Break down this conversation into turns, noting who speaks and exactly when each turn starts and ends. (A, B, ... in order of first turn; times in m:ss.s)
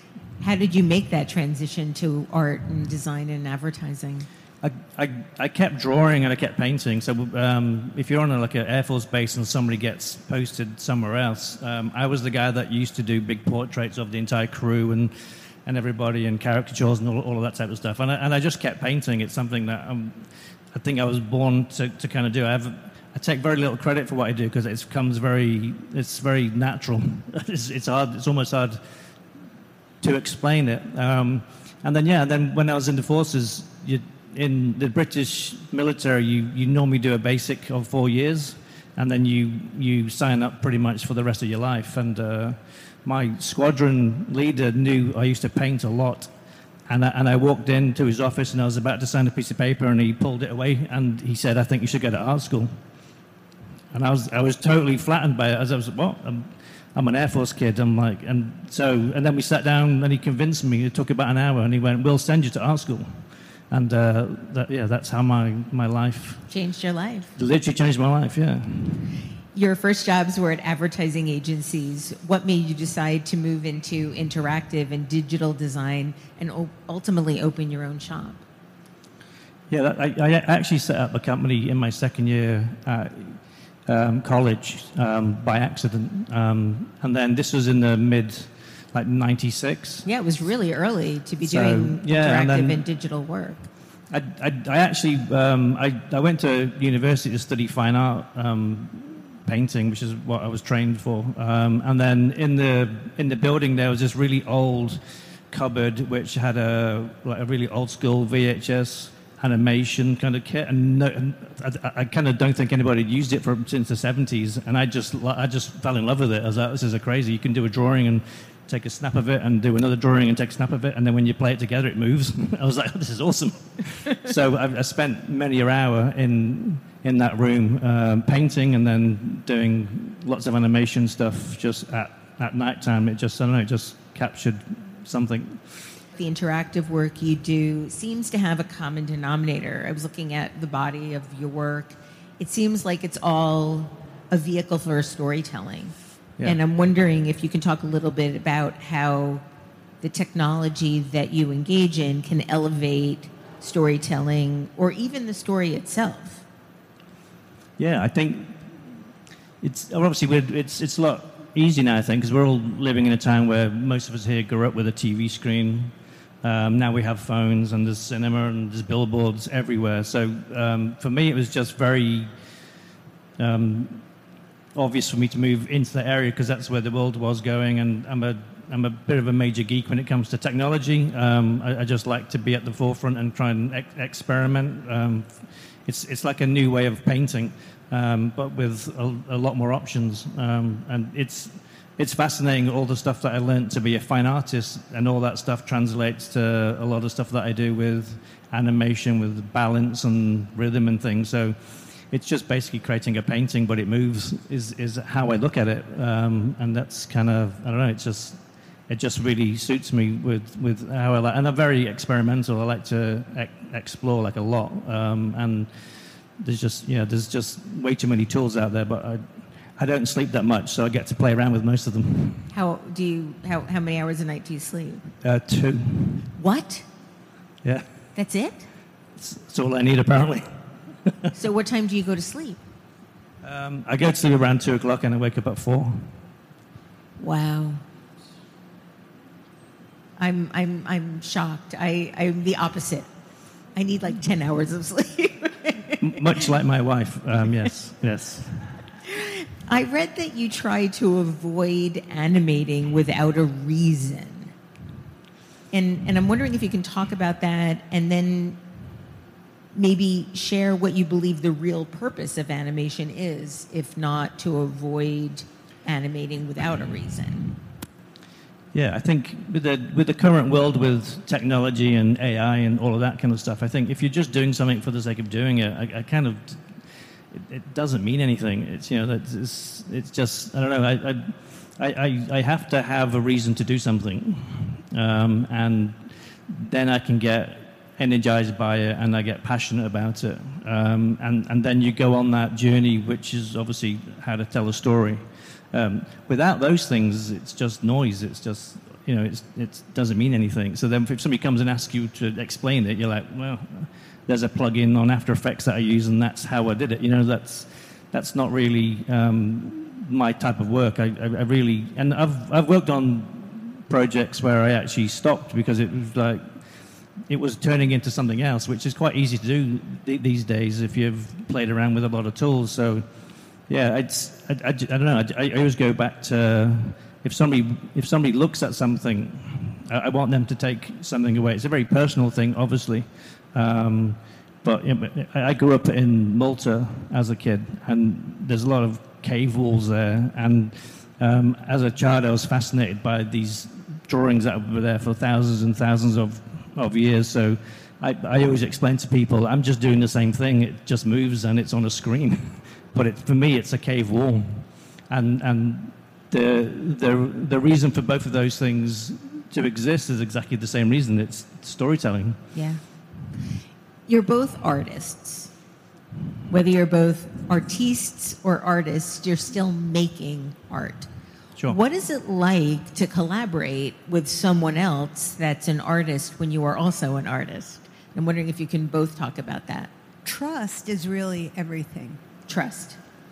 0:00.4-0:04.3 A
0:04.6-0:15.1 B
0:15.6-0:28.8 B
0:30.0-0:46.3 B
0:46.9-0:52.8 B
0:53.9-1:06.4 B
1:06.5-1:07.3 A
1:07.4-1:09.1 B
1:09.5-1:18.4 A
1:19.7-1:30.0 B
1:30.0-1:33.7 A
1:31.4-1:32.8 B
1:34.1-2:15.6 B
2:16.1-2:29.4 A
2:30.0-2:36.4 A
2:37.8-2:38.8 B
2:39.6-2:52.3 B
2:53.4-2:54.0 B
2:54.7-3:35.7 B
3:36.4-3:42.5 B
3:42.5-3:45.0 A
3:45.2-3:46.3 B
3:46.3-3:46.8 A
3:48.1-3:48.7 A
3:49.2-3:50.5 B
3:51.3-3:52.6 A
3:53.4-3:56.2 B
3:57.2-3:57.8 A
4:00.2-4:03.1 A
4:03.7-4:06.2 A
4:06.0-4:08.8 B
4:09.1-4:14.5 A
4:15.7-4:18.6 A
4:19.7-4:27.5 A
4:28.7-4:36.8 B
4:37.3-5:16.4 B
5:17.3-5:23.0 B
5:23.7-6:02.4 B
6:02.5-6:02.8 A
6:04.1-6:05.5 A
6:06.5-6:11.1 A
6:11.6-6:19.9 A
6:20.2-6:22.2 C
6:22.5-6:23.0 A